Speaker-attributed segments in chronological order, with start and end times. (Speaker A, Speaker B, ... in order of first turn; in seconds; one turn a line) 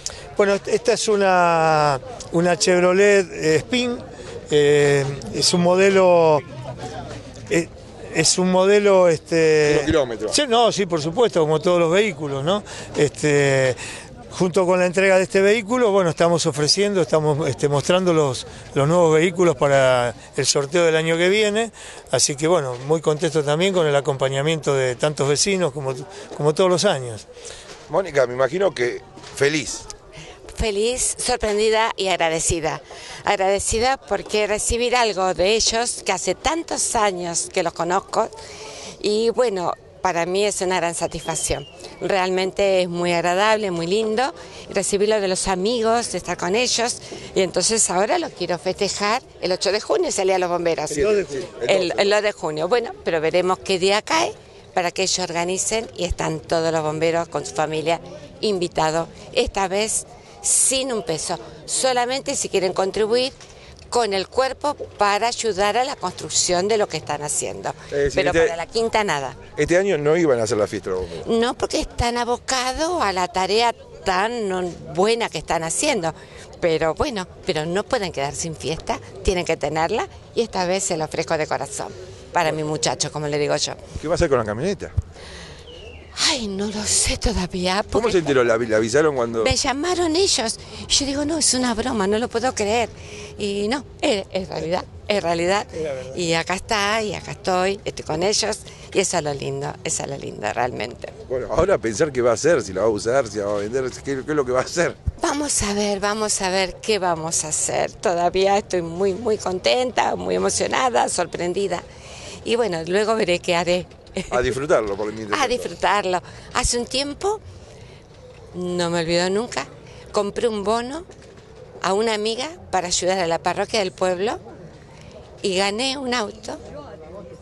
Speaker A: 0.4-6.4
Speaker A: 7.5-13.8
Speaker B: 9.7-10.3
Speaker A: 14.3-27.2
Speaker B: 27.9-29.9
Speaker C: 30.5-38.4
Speaker C: 39.0-63.4
Speaker B: 50.9-52.1
Speaker A: 51.0-51.4
Speaker C: 63.9-69.4
Speaker B: 67.9-68.6
Speaker B: 69.5-71.3
Speaker C: 71.2-83.8
Speaker B: 84.0-84.9
Speaker C: 86.2-88.4
Speaker B: 87.9-89.5
Speaker C: 89.4-101.2
Speaker B: 101.3-105.0
Speaker C: 105.2-111.8
Speaker C: 112.4-114.6
Speaker B: 114.3-115.7
Speaker C: 115.3-117.4
Speaker C: 118.5-121.1
Speaker C: 121.8-124.4
Speaker C: 125.4-126.6